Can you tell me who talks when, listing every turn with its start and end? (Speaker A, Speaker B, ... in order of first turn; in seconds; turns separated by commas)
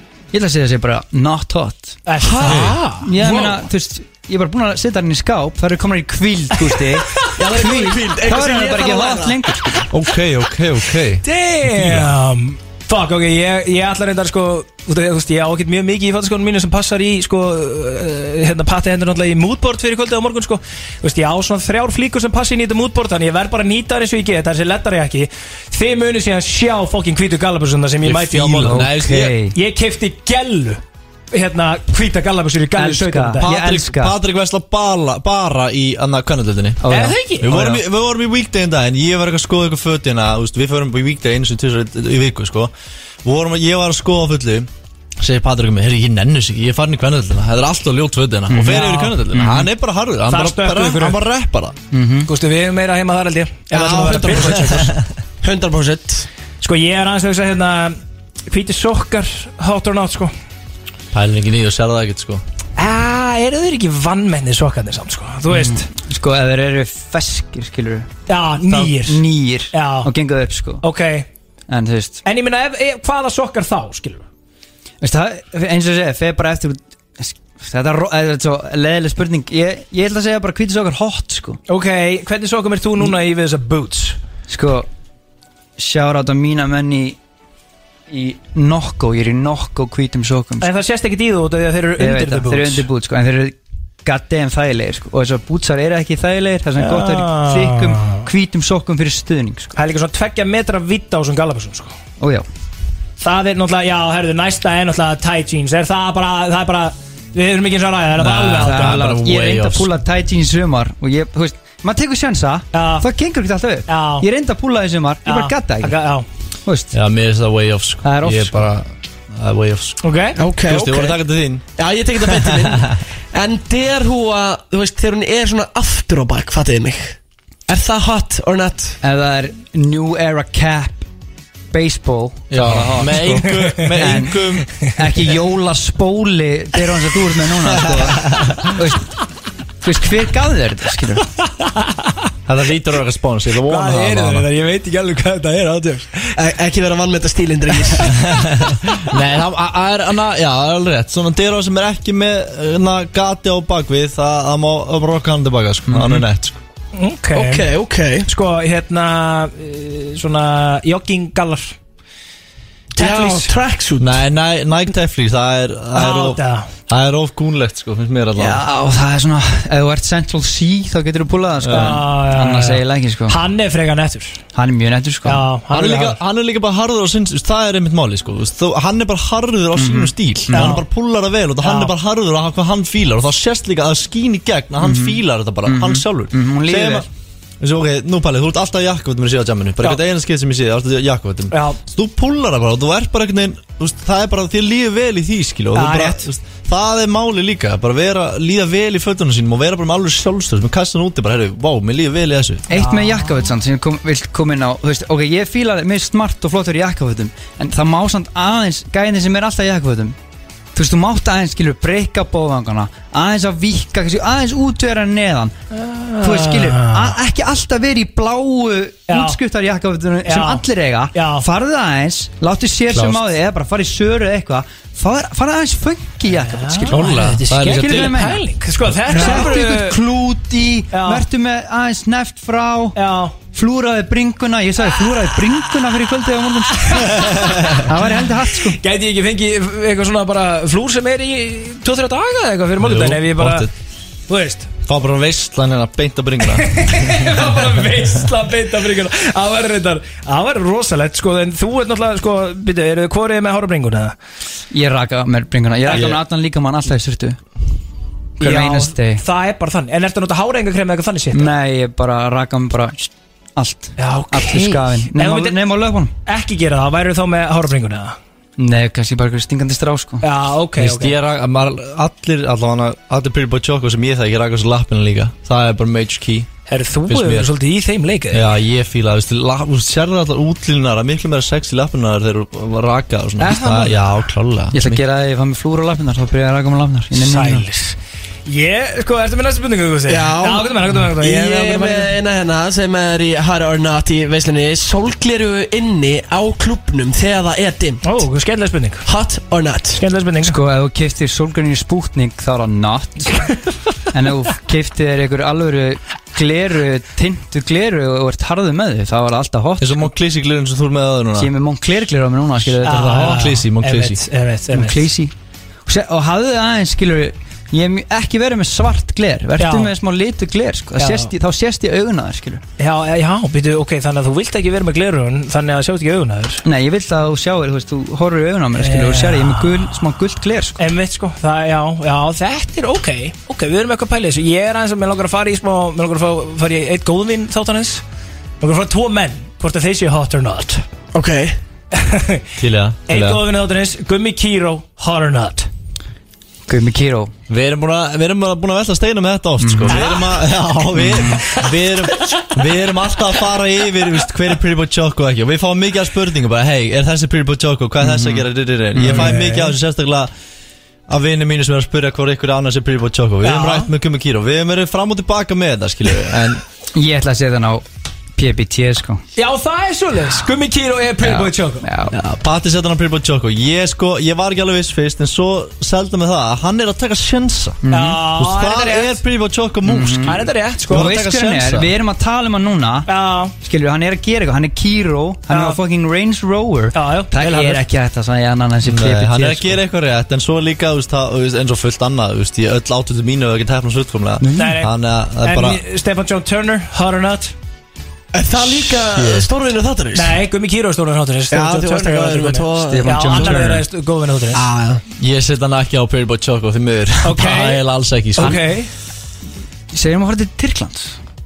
Speaker A: 0.3-2.0, Speaker B: 2.0-3.1, Speaker C: 2.2-3.5, Speaker D: 2.4-2.8, Speaker A: 3.0-9.9, Speaker C: 7.3-9.4, Speaker D: 9.9-12.1, Speaker B: 11.2-28.9, Speaker D: 28.0-29.3, Speaker A: 28.6-29.5, Speaker B: 29.5-30.8, Speaker B: 31.3-33.5, Speaker A: 32.8-34.1, Speaker D: 33.4-42.7, Speaker A: 36.8-37.2, Speaker B: 36.9-37.8, Speaker D: 43.2-51.8, Speaker A: 48.5-49.7, Speaker B: 48.6-49.1, Speaker B: 50.3-51.2, Speaker A: 51.9-52.3, Speaker B: 52.3-54.9, Speaker C: 53.7-56.3, Speaker D: 54.7-54.9, Speaker B: 56.6-60.3, Speaker D: 61.1-62.4, Speaker B: 62.8-65.9, Speaker A: 65.5-68.1, Speaker B: 68.3-70.1, Speaker A: 68.6-70.8, Speaker B: 70.8-71.3, Speaker A: 71.7-72.2, Speaker B: 72.2-74.2, Speaker A: 75.0-81.6, Speaker B: 81.7-84.2, Speaker A: 84.5-84.9, Speaker A: 85.8-87.2, Speaker A: 88.1-90.7, Speaker B: 90.6-92.9, Speaker A: 92.0-99.7, Speaker B: 96.8-98.2, Speaker B: 99.8-101.9, Speaker A: 102.2-102.5, Speaker B: 103.2-109.0, Speaker D: 108.2-109.9, Speaker A: 108.6-115.9, Speaker B: 112.7-113.0, Speaker B: 113.9-114.2, Speaker B: 115.2-116.2, Speaker A: 116.6-116.9, Speaker D: 116.9-120.0, Speaker A: 118.0-118.6, Speaker B: 120.0-120.4, Speaker C: 120.4-121.2, Speaker D: 120.6-121.6, Speaker C: 121.8-127.2, Speaker D: 122.3-122.8, Speaker C: 127.7-129.0, Speaker A: 129.0-131.1, Speaker A: 131.7-139.1, Speaker D: 132.5-134.7, Speaker B: 133.5-133.9, Speaker D: 138.0-138.5, Speaker A: 139.8-141.2, Speaker B: 141.4-142.3, Speaker D: 142.4-144.5, Speaker B: 143.7-146.4, Speaker C: 146.3-148.2, Speaker D: 148.1-156.6, Speaker B: 156.9-157.7, Speaker C: 157.3-158.3, Speaker B: 158.2-161.7, Speaker B: 162.9-163.6, Speaker C: 163.0-164.2, Speaker D: 164.0-168.6, Speaker B: 165.9-166.7, Speaker A: 168.4-173.4, Speaker D: 171.6-172.0, Speaker B: 171.7-174.4, Speaker A: 174.5-175.4, Speaker B: 175.2-176.2, Speaker D: 175.7-187.1, Speaker A: 179.8-180.8, Speaker B: 180.5-180.8, Speaker B: 181.6-181.9, Speaker A: 184.8-187.1, Speaker D: 187.6-202.7, Speaker B: 191.5-191.8, Speaker B: 195.7-196.2, Speaker A: 202.7-210.2, Speaker B: 202.7-203.5, Speaker A: 210.7-215.5, Speaker B: 215.7-217.2, Speaker A: 216.2-228.4, Speaker B: 219.1-219.4, Speaker B: 220.2-221.4, Speaker D: 222.9-223.2, Speaker B: 226.3-230.0, Speaker D: 226.9-228.2, Speaker A: 229.1-232.9, Speaker B: 230.9-231.2, Speaker B: 232.9-233.3, Speaker A: 233.5-238.8, Speaker D: 237.2-237.7, Speaker B: 238.7-243.7, Speaker D: 242.8-243.7, Speaker B: 244.3-244.7, Speaker D: 244.8-247.3, Speaker B: 246.5-254.2, Speaker A: 254.7-257.4, Speaker D: 255.9-256.2, Speaker B: 258.4-261.5, Speaker A: 258.4-259.2, Speaker A: 261.3-266.1, Speaker B: 264.0-265.6, Speaker B: 266.2-268.2, Speaker A: 268.6-270.2, Speaker B: 270.2-271.2, Speaker D: 270.8-276.5, Speaker B: 276.7-278.5, Speaker D: 277.1-277.5, Speaker D: 278.3-285.0, Speaker B: 283.4-284.2, Speaker A: 284.7-287.6, Speaker B: 287.1-292.1, Speaker C: 290.1-298.1, Speaker B: 298.0-299.0, Speaker C: 299.1-300.0, Speaker B: 300.0-300.6, Speaker A: 300.4-303.6, Speaker A: 304.1-310.1, Speaker D: 309.8-311.5, Speaker A: 311.4-313.5, Speaker B: 312.8-315.1, Speaker D: 313.1-314.2, Speaker A: 314.7-315.3, Speaker A: 315.9-322.6, Speaker B: 319.6-319.9, Speaker B: 321.0-321.3, Speaker B: 322.8-326.6, Speaker A: 326.6-330.8, Speaker B: 328.8-329.9, Speaker B: 330.8-338.0, Speaker B: 338.6-340.8, Speaker C: 341.1-341.6, Speaker B: 341.9-342.4, Speaker D: 342.6-343.4, Speaker B: 343.1-345.7, Speaker A: 346.7-347.3, Speaker D: 347.5-360.3, Speaker A: 349.6-350.0, Speaker B: 349.9-350.5, Speaker A: 350.9-351.4, Speaker B: 351.4-351.7, Speaker A: 358.0-359.6, Speaker B: 359.0-359.7, Speaker D: 361.1-366.6, Speaker B: 363.4-363.9, Speaker A: 366.9-367.8, Speaker A: 368.4-369.2, Speaker B: 369.4-371.9, Speaker A: 371.2-372.1, Speaker D: 372.1-381.9, Speaker A: 377.8-378.2, Speaker B: 377.9-379.2, Speaker A: 379.9-383.1, Speaker B: 380.2-381.1, Speaker B: 383.1-383.5, Speaker A: 383.6-389.8, Speaker B: 385.5-385.8, Speaker B: 386.9-387.8, Speaker D: 388.8-395.8, Speaker A: 394.4-394.8, Speaker B: 394.6-397.5, Speaker C: 398.3-400.4, Speaker D: 398.6-399.5, Speaker B: 400.1-404.6, Speaker C: 401.5-403.6, Speaker A: 402.9-403.8, Speaker C: 404.5-405.0, Speaker D: 405.2-408.6, Speaker B: 407.2-407.8, Speaker B: 408.4-408.9, Speaker A: 409.9-411.2